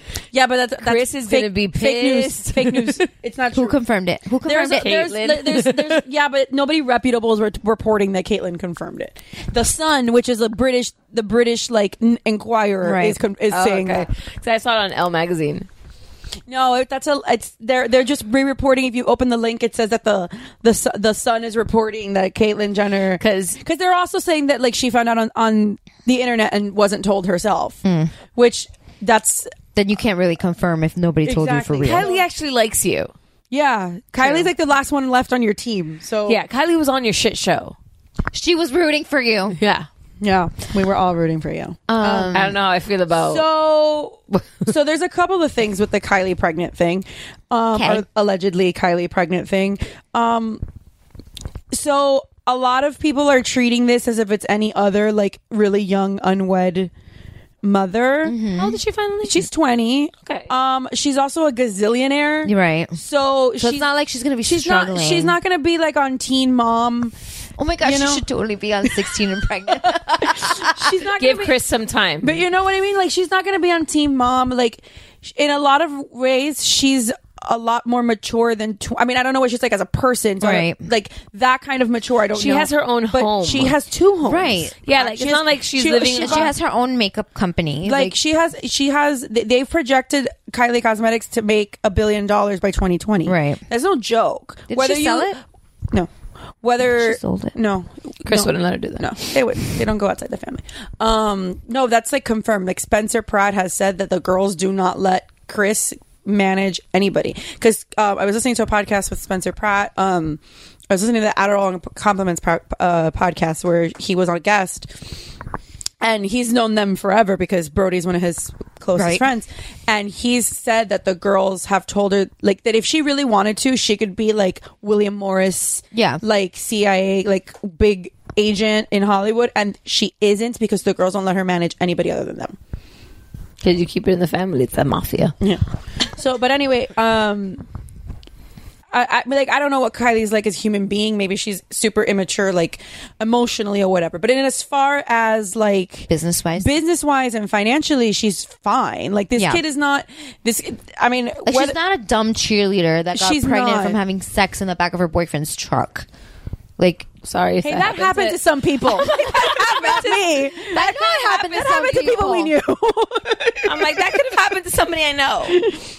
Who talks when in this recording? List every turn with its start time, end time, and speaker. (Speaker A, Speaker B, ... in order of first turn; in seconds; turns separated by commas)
Speaker A: 0.3-3.8, Speaker B: 0.8-2.9, Speaker C: 3.5-5.0, Speaker A: 4.4-14.1, Speaker B: 4.8-6.0, Speaker C: 12.8-13.2, Speaker B: 13.5-15.7, Speaker A: 16.5-27.8, Speaker B: 23.2-23.6, Speaker C: 27.8-28.1, Speaker A: 28.3-29.5, Speaker C: 29.7-32.1, Speaker A: 31.2-32.2, Speaker B: 31.8-33.1, Speaker A: 33.5-36.4, Speaker B: 34.2-34.5, Speaker B: 36.3-37.8, Speaker C: 38.3-39.6, Speaker B: 39.5-39.9, Speaker A: 40.2-42.4, Speaker C: 41.9-42.5, Speaker B: 42.3-43.4, Speaker A: 43.1-50.6, Speaker C: 47.7-48.0, Speaker A: 51.7-56.9, Speaker A: 57.6-58.4, Speaker C: 58.2-58.8, Speaker B: 58.5-59.5, Speaker A: 59.2-63.9, Speaker C: 62.4-63.0, Speaker C: 63.6-65.4, Speaker A: 64.4-67.1, Speaker C: 67.6-70.9, Speaker A: 67.8-68.2, Speaker A: 69.8-71.5, Speaker B: 71.2-72.4, Speaker A: 72.2-86.5, Speaker C: 80.4-80.8, Speaker B: 82.3-83.7, Speaker C: 84.2-84.7, Speaker B: 84.8-86.5, Speaker C: 86.1-88.2, Speaker A: 87.8-95.4, Speaker C: 93.2-93.6, Speaker C: 94.7-95.4, Speaker A: 96.6-115.1, Speaker C: 96.8-97.6, Speaker B: 98.2-99.1, Speaker A: 116.0-132.6, Speaker C: 118.9-119.2, Speaker C: 125.9-126.2, Speaker B: 133.6-135.3, Speaker A: 136.2-137.6, Speaker A: 138.9-151.8, Speaker C: 146.1-146.7, Speaker C: 149.3-149.6, Speaker C: 151.4-156.1, Speaker A: 153.1-154.0, Speaker C: 156.8-157.1, Speaker B: 157.2-158.4, Speaker A: 157.6-164.4, Speaker B: 158.9-160.1, Speaker C: 159.0-162.5, Speaker B: 163.6-165.7, Speaker A: 165.5-165.8